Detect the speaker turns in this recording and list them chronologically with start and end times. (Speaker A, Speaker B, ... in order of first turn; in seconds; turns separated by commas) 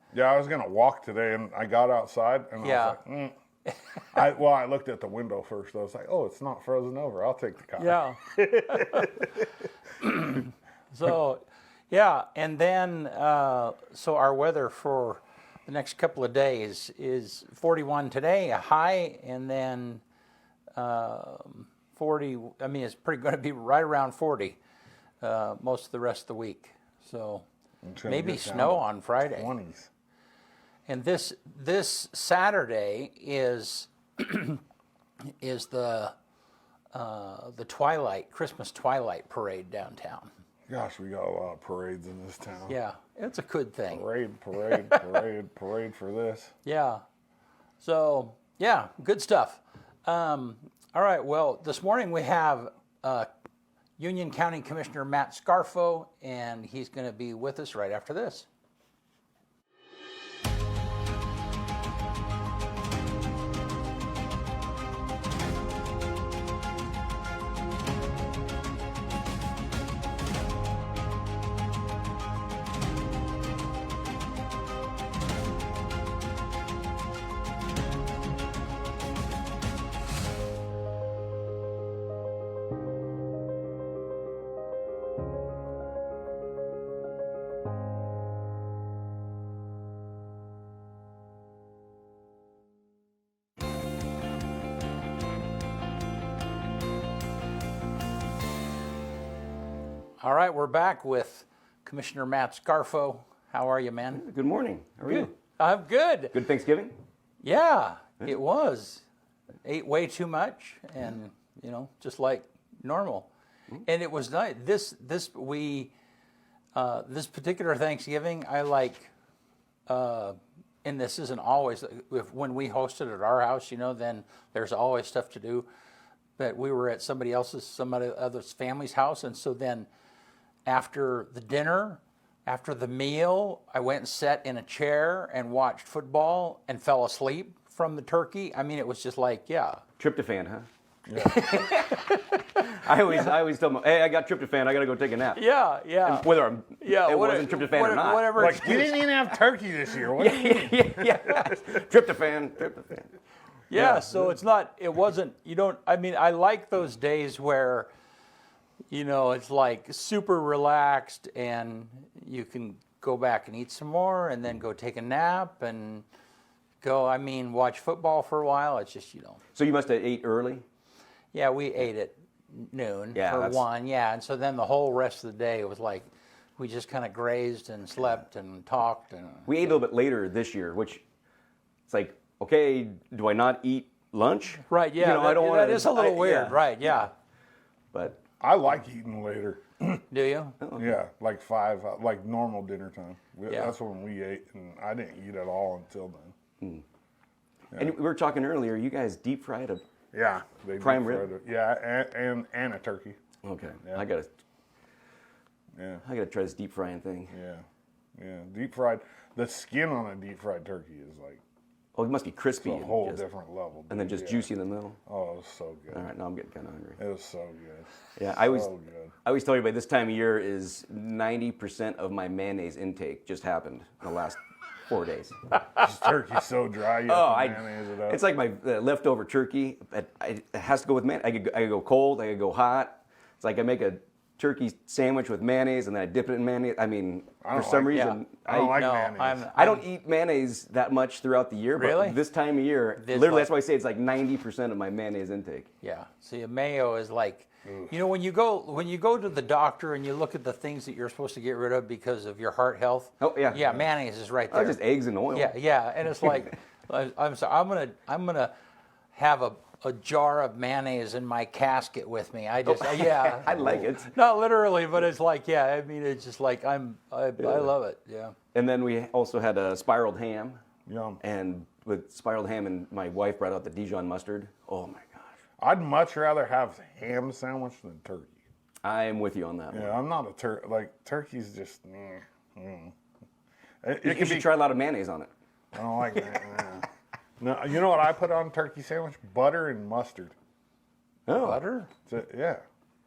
Speaker A: 0.1-3.4, Speaker B: 2.6-3.0, Speaker A: 4.1-9.3, Speaker B: 7.8-9.2, Speaker B: 10.0-20.0, Speaker B: 20.8-24.6, Speaker B: 25.2-27.5, Speaker A: 27.9-29.9, Speaker B: 28.1-29.5, Speaker B: 30.9-34.6, Speaker B: 35.2-36.1, Speaker B: 36.9-40.3, Speaker A: 40.7-42.8, Speaker B: 42.7-44.0, Speaker A: 43.9-46.5, Speaker B: 46.6-47.0, Speaker B: 47.8-53.3, Speaker B: 54.0-58.5, Speaker B: 100.2-104.2, Speaker C: 104.1-105.3, Speaker B: 105.0-106.4, Speaker C: 106.3-107.0, Speaker B: 107.4-109.0, Speaker B: 109.7-113.3, Speaker B: 113.8-115.9, Speaker B: 116.8-119.1, Speaker B: 119.9-125.7, Speaker B: 126.4-129.9, Speaker B: 130.7-139.8, Speaker C: 140.0-140.7, Speaker A: 141.1-141.4, Speaker C: 141.2-145.5, Speaker B: 141.5-142.9, Speaker B: 145.3-149.1, Speaker C: 146.0-148.6, Speaker A: 148.3-151.5, Speaker C: 150.2-153.1, Speaker B: 153.7-157.9, Speaker B: 158.9-166.1, Speaker B: 166.8-169.4, Speaker C: 169.6-170.6, Speaker B: 171.3-179.8, Speaker C: 173.2-173.7, Speaker C: 179.5-181.0, Speaker C: 181.9-186.9, Speaker B: 184.7-187.1, Speaker C: 187.9-188.2, Speaker A: 188.4-190.0, Speaker B: 190.1-190.6, Speaker C: 190.6-190.9, Speaker A: 190.8-196.3, Speaker B: 193.5-193.8, Speaker C: 197.8-199.8, Speaker A: 200.1-203.2, Speaker C: 200.8-201.3, Speaker C: 203.4-204.3, Speaker A: 205.8-206.0, Speaker C: 206.1-207.3, Speaker A: 207.3-207.7, Speaker A: 208.2-211.4, Speaker C: 211.9-213.2, Speaker A: 212.6-214.5, Speaker C: 213.9-215.0, Speaker A: 215.1-216.1, Speaker C: 215.9-217.0, Speaker A: 217.0-219.1, Speaker C: 218.2-218.7, Speaker C: 219.2-225.6, Speaker A: 225.8-228.2, Speaker C: 227.1-238.8, Speaker A: 237.4-239.5, Speaker B: 237.9-239.8, Speaker C: 239.5-245.7, Speaker B: 241.8-242.2, Speaker B: 243.0-243.5, Speaker B: 245.8-254.8, Speaker A: 247.7-247.9, Speaker C: 253.2-253.8, Speaker C: 254.5-255.5, Speaker B: 255.3-258.5, Speaker B: 259.1-268.4, Speaker C: 262.6-264.1, Speaker C: 267.4-267.7, Speaker C: 268.5-270.6, Speaker A: 270.9-271.2, Speaker C: 271.2-275.3, Speaker A: 275.6-278.4, Speaker C: 278.8-279.9, Speaker A: 279.7-282.9, Speaker A: 283.8-284.5, Speaker C: 284.0-285.3, Speaker A: 285.7-286.9, Speaker A: 287.4-290.3, Speaker C: 291.3-291.6, Speaker B: 291.4-291.9, Speaker A: 292.1-292.6